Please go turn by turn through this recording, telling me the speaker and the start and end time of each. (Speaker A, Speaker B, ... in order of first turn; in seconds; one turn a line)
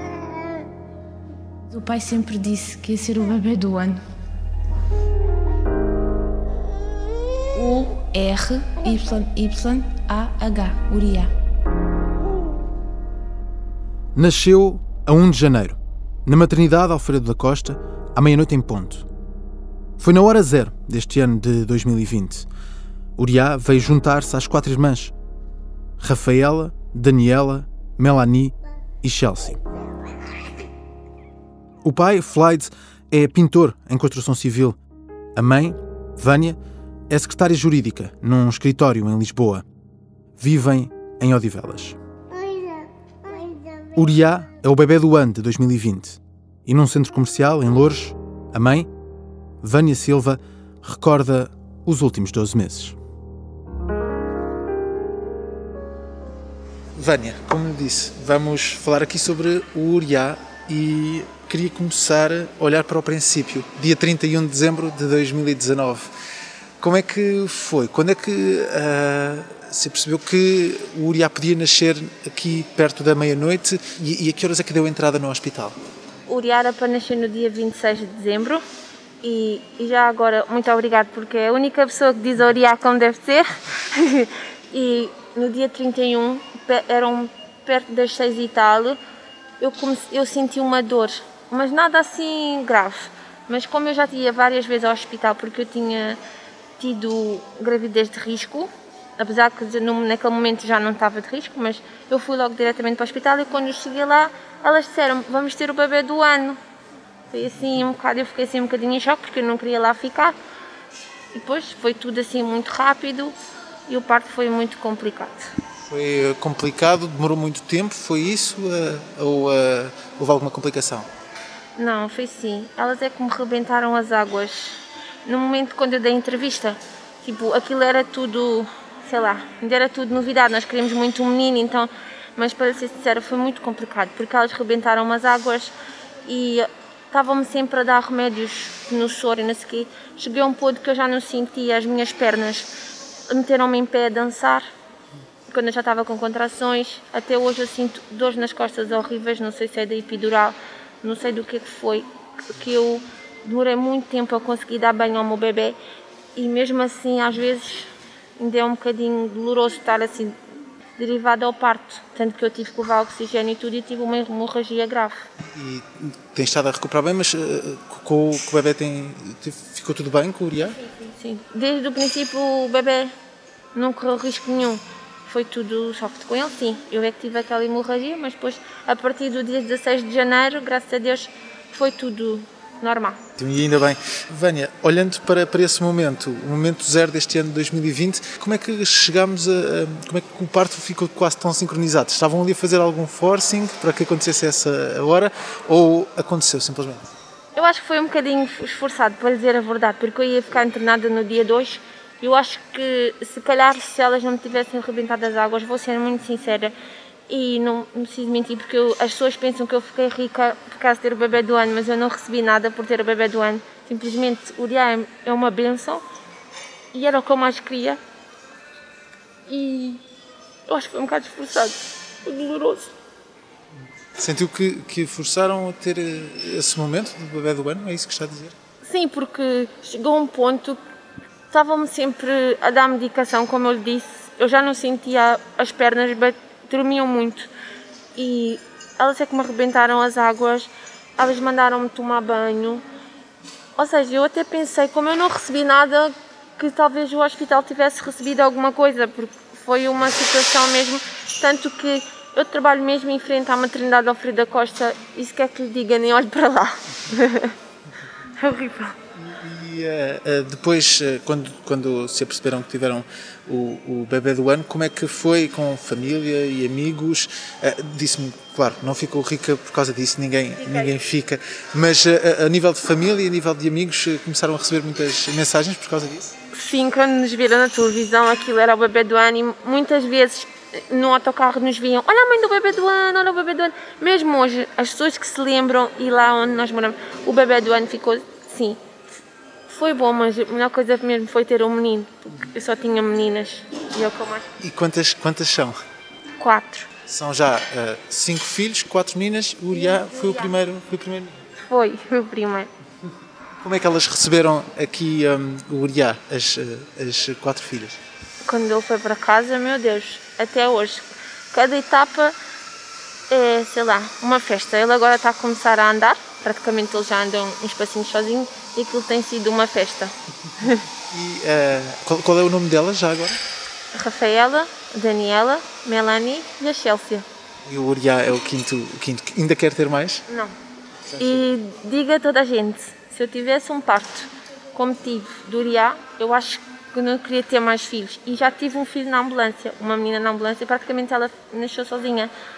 Speaker A: 1.7-4.0
Speaker A: 7.5-11.3
Speaker B: 14.2-19.1
Speaker B: 20.0-22.5
Speaker B: 23.2-25.1
Speaker B: 26.0-29.6
Speaker B: 31.8-34.8
Speaker B: 35.4-36.6
Speaker B: 37.1-39.6
Speaker B: 40.4-42.0
Speaker B: 44.0-48.9
Speaker B: 49.6-53.0
Speaker B: 57.0-66.1
Speaker B: 66.8-75.8
Speaker A: 76.3-78.6
Speaker A: 79.2-89.0
Speaker A: 89.6-96.2
Speaker A: 96.8-106.6
Speaker A: 107.3-110.3
Speaker A: 111.3-113.3
Speaker A: 113.9-115.5
Speaker B: 115.8-121.1
Speaker A: 121.8-135.7
Speaker A: 136.3-142.7
Speaker A: 143.3-144.6
Speaker A: 145.5-155.8
Speaker A: 156.4-160.3
Speaker A: 161.0-165.2
Speaker B: 165.5-170.8
Speaker A: 171.2-173.1
Speaker A: 173.8-183.2
Speaker B: 183.4-197.1
Speaker A: 197.6-206.7
Speaker A: 207.3-216.0
Speaker A: 216.9-218.0
Speaker A: 219.5-220.0
Speaker A: 220.7-222.9
Speaker B: 224.2-228.5
Speaker A: 228.8-230.8
Speaker A: 231.5-237.5
Speaker A: 238.2-242.8
Speaker A: 243.8-257.5
Speaker A: 258.4-259.0
Speaker B: 259.2-276.3
Speaker A: 270.6-271.0
Speaker A: 276.5-288.8
Speaker A: 289.7-294.4
Speaker B: 294.6-295.8
Speaker A: 296.4-296.9
Speaker B: 297.1-301.3
Speaker A: 299.7-300.6
Speaker A: 301.7-302.7
Speaker B: 303.6-308.0
Speaker A: 308.4-312.4
Speaker A: 313.3-320.8
Speaker B: 321.1-323.4
Speaker A: 323.9-327.2
Speaker B: 327.7-330.2
Speaker B: 331.1-331.4
Speaker A: 331.2-342.3